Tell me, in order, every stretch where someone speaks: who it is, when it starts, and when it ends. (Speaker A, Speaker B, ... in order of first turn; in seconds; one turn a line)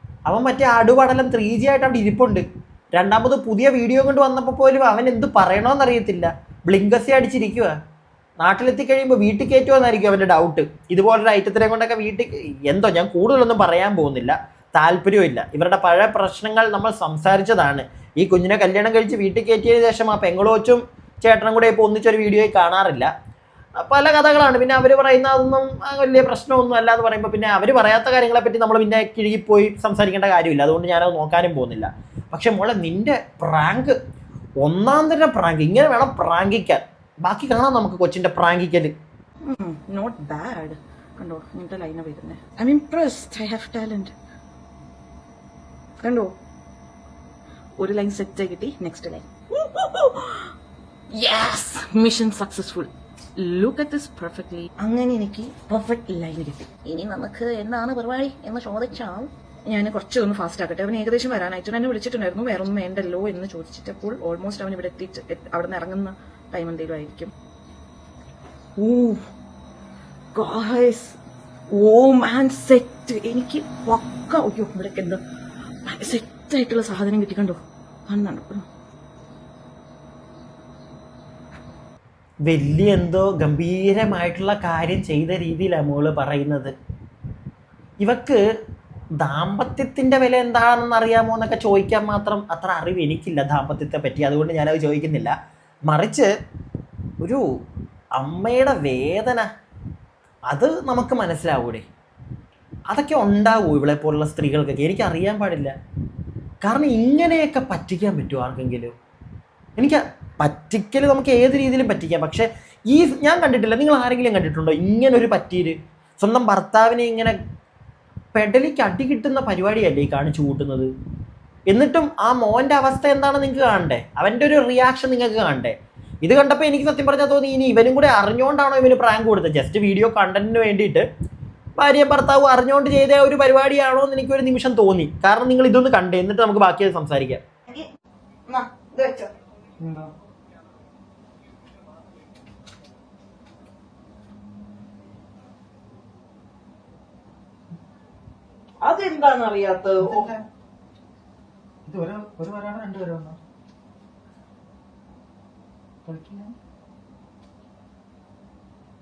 Speaker A: 0.3-7.7
Speaker A: 8.4-23.1
Speaker A: 23.8-34.0
Speaker A: 34.6-38.9
Speaker B: 39.5-44.1
Speaker B: 46.0-46.3
Speaker B: 47.8-50.5
Speaker B: 51.1-67.3
Speaker B: 68.8-69.2
Speaker B: 70.3-71.2
Speaker B: 71.7-75.2
Speaker B: 75.8-78.7
Speaker A: 82.5-86.7
Speaker A: 88.0-88.4
Speaker A: 89.2-95.3
Speaker A: 95.9-96.3
Speaker A: 98.2-99.5
Speaker A: 100.5-101.8
Speaker A: 102.9-105.7
Speaker A: 106.6-108.9
Speaker A: 109.8-117.3
Speaker A: 118.3-120.9
Speaker A: 121.7-131.1
Speaker A: 131.8-137.4
Speaker B: 138.5-139.3
Speaker C: 139.8-140.1
Speaker B: 148.8-150.3
Speaker C: 150.0-150.4
Speaker C: 151.9-153.4
Speaker C: 156.1-156.5